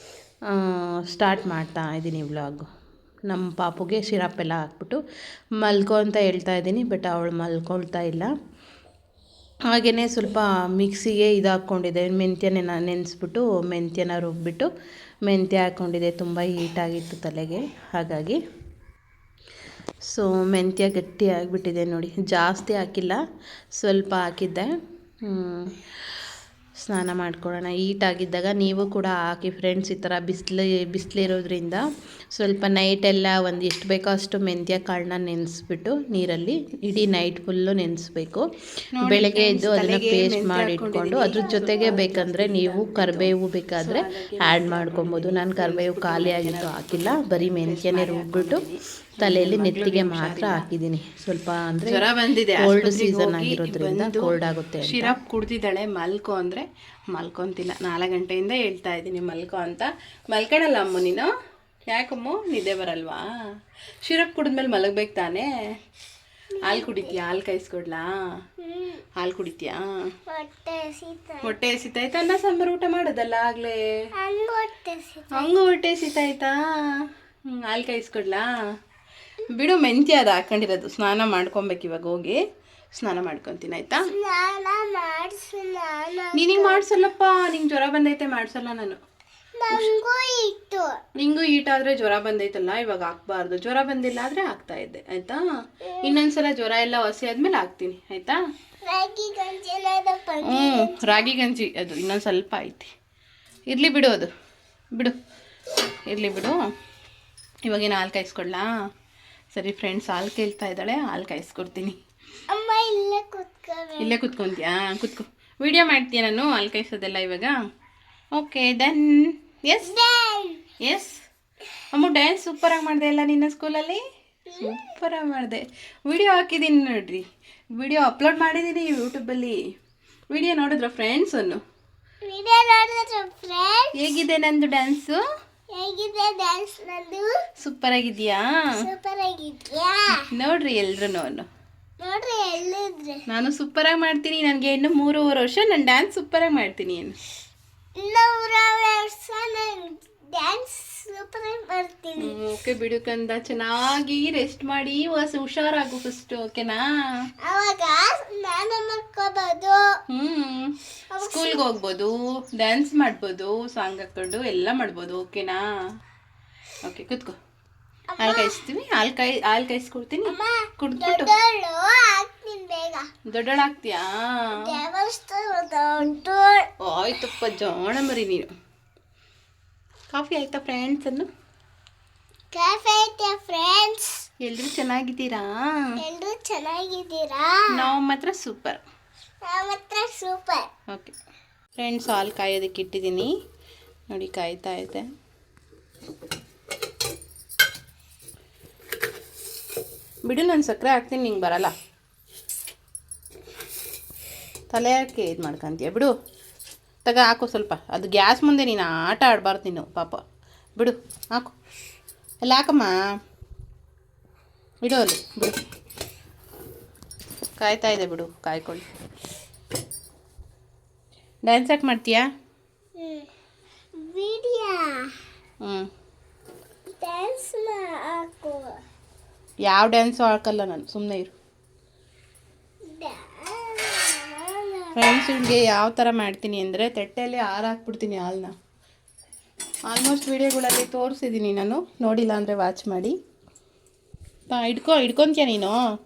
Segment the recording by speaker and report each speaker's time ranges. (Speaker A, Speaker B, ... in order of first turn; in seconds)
Speaker A: 0.5-2.7, 3.3-5.0, 5.6-8.3, 9.7-14.7, 15.3-18.4, 20.1-23.2, 23.7-24.7, 25.2-25.8, 26.8-31.8, 32.3-38.5, 39.0-48.6, 49.2-55.2
Speaker B: 39.0-50.7, 51.9-61.3, 61.9-63.3, 64.0-65.5, 66.6-68.1, 69.2-69.9, 71.4-73.8, 75.3-76.6, 77.5-78.5, 79.5-82.4, 82.9-84.1, 86.3-89.0, 91.2-98.4, 100.4-102.9, 103.7-104.3, 105.8-106.6, 107.6-108.7, 109.5-112.0, 114.0-117.5, 118.3-119.9, 120.8-121.2, 121.9-124.0, 124.6-127.2, 127.8-129.6, 130.3-131.6, 133.9-135.2, 137.6-138.5, 140.1-141.5, 143.3-147.2, 152.2-157.3, 160.1-165.6, 166.8-167.4, 168.2-171.3, 173.3-174.8, 176.8-178.5, 180.1-181.3, 184.4-185.5, 187.7-188.8, 190.9-191.1, 191.8-193.3, 194.1-195.1, 200.2-201.7, 204.7-206.1, 207.1-210.2, 210.8-211.5, 212.4-213.0, 214.8-215.6, 217.6-218.9, 221.4-222.2, 225.6-225.9, 229.7-231.3, 234.9-238.6, 239.9-243.2, 244.5-245.8
Speaker C: 41.3-42.1, 66.6-67.2, 68.6-69.1, 70.3-71.5, 74.2-75.6, 84.0-86.9, 89.6-91.0, 95.9-96.2, 98.8-101.3, 112.5-114.2, 119.8-120.7, 124.5-125.0, 132.2-134.2, 135.7-137.5, 138.8-140.3, 142.0-143.2, 148.0-152.4, 157.4-159.9, 161.1-161.7, 168.1-168.7, 170.2-173.1, 174.6-176.7, 182.5-184.3, 186.0-187.7, 189.4-190.7, 223.0-223.3, 223.9-225.2, 227.0-228.8, 232.9-235.1